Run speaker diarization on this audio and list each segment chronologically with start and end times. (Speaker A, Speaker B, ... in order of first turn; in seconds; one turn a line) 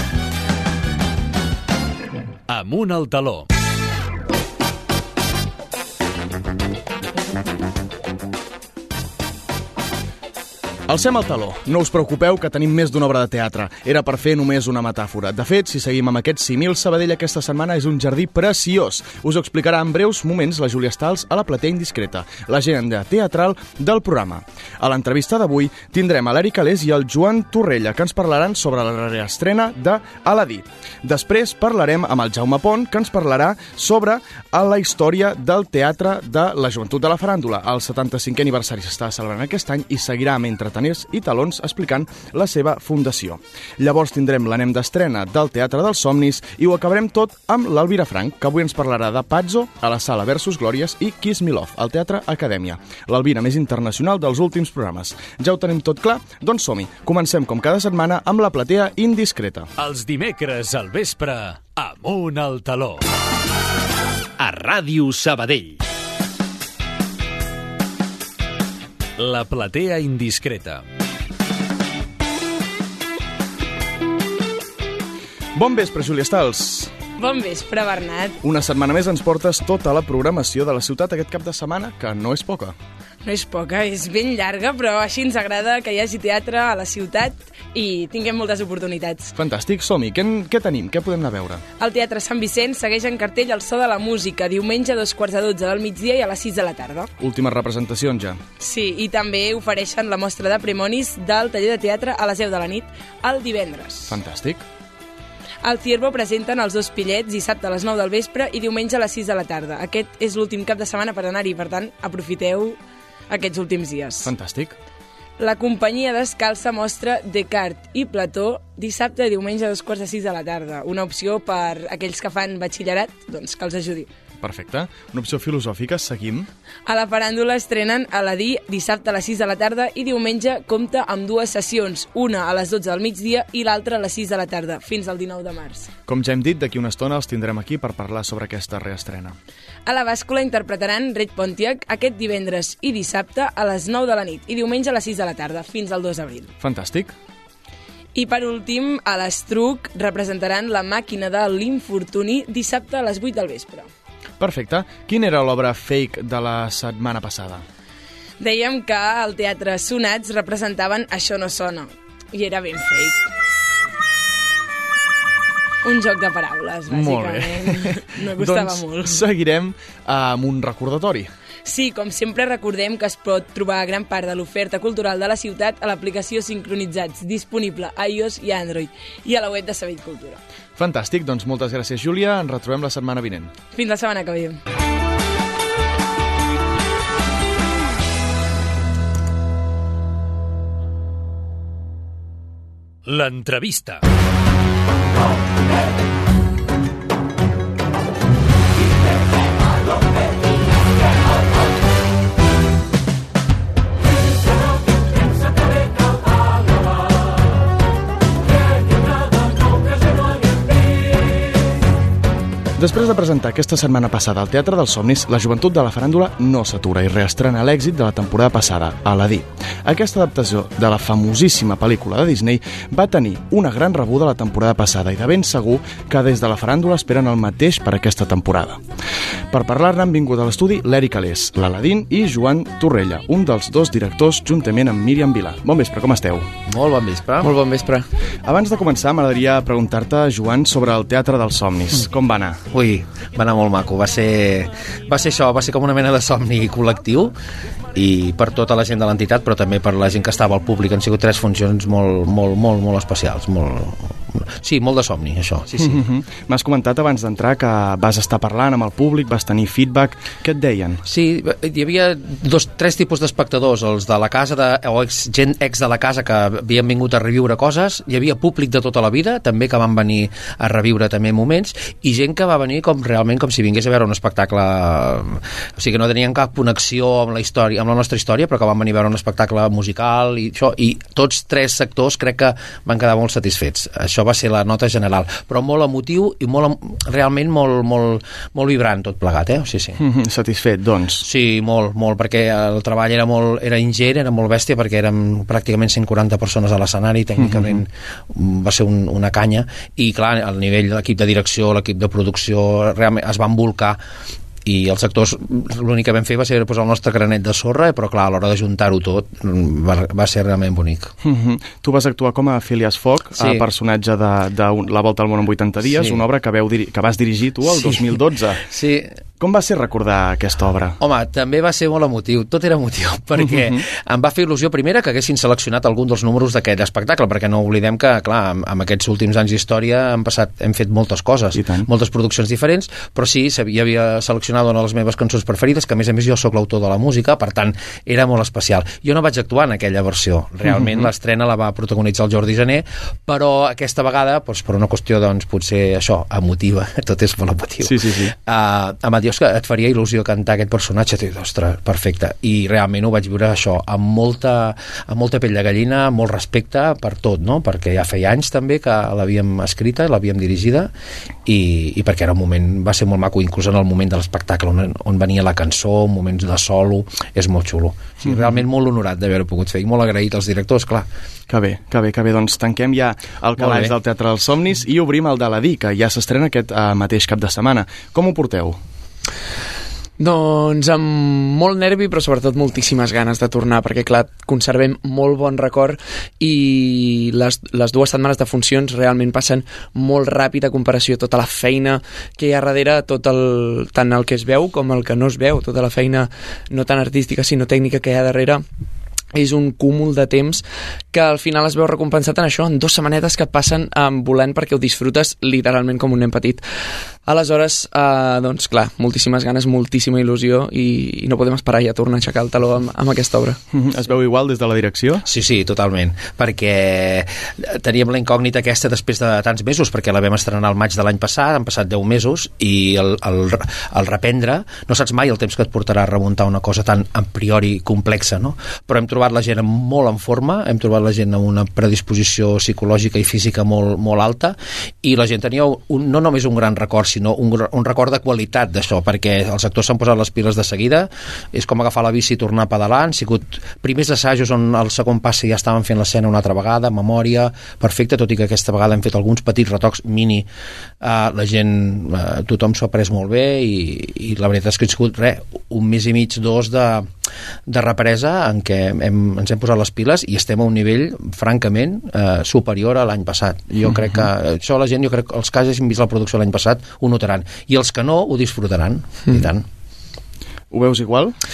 Speaker A: 2.5-3.5
Speaker B: 10.9-59.7
Speaker A: 59.8-63.0
Speaker A: 64.4-65.8
Speaker A: 69.2-70.8
Speaker B: 75.5-76.9
Speaker C: 77.2-78.4
Speaker B: 78.4-82.8
Speaker C: 83.2-89.3
Speaker B: 89.4-91.6
Speaker C: 91.8-97.1
Speaker B: 97.2-98.4
Speaker C: 98.6-104.2
Speaker B: 104.1-104.6
Speaker C: 105.6-112.8
Speaker C: 113.3-114.3
Speaker B: 114.2-114.8
Speaker C: 115.4-124.1
Speaker B: 124.4-126.5
Speaker C: 126.9-135.9
Speaker B: 136.1-139.4
Speaker C: 139.9-146.5
Speaker B: 146.6-147.1
Speaker C: 148.2-153.9
Speaker B: 154.4-157.6
Speaker C: 158.4-163.3
Speaker C: 165.8-169.2
Speaker B: 166.9-171.3
Speaker C: 171.7-180.4
Speaker B: 180.8-183.5
Speaker C: 183.8-184.6
Speaker A: 193.1-194.0
Speaker B: 212.8-228.8
Speaker B: 229.5-236.5
Speaker D: 236.7-237.5
Speaker E: 237.4-238.1
Speaker B: 238.4-242.6
Speaker D: 242.7-247.3
Speaker D: 247.9-256.0
Speaker B: 255.8-261.0
Speaker D: 261.1-290.0
Speaker B: 290.0-291.2
Speaker D: 291.2-304.0
Speaker B: 297.4-297.8
Speaker D: 304.6-311.1
Speaker B: 311.2-318.7
Speaker D: 313.4-313.6
Speaker D: 315.9-316.2
Speaker D: 317.7-319.1
Speaker B: 319.4-321.0
Speaker D: 321.0-360.9
Speaker B: 323.4-323.8
Speaker B: 331.6-331.9
Speaker B: 340.8-341.1
Speaker B: 347.8-348.3
Speaker D: 361.4-371.1
Speaker B: 368.2-368.5
Speaker B: 371.5-378.8
Speaker D: 373.6-373.9
Speaker E: 380.2-398.6
Speaker E: 399.3-413.6
Speaker B: 413.7-415.2
Speaker D: 415.2-450.5
Speaker D: 451.0-457.1
Speaker D: 457.7-469.6
Speaker B: 470.7-471.4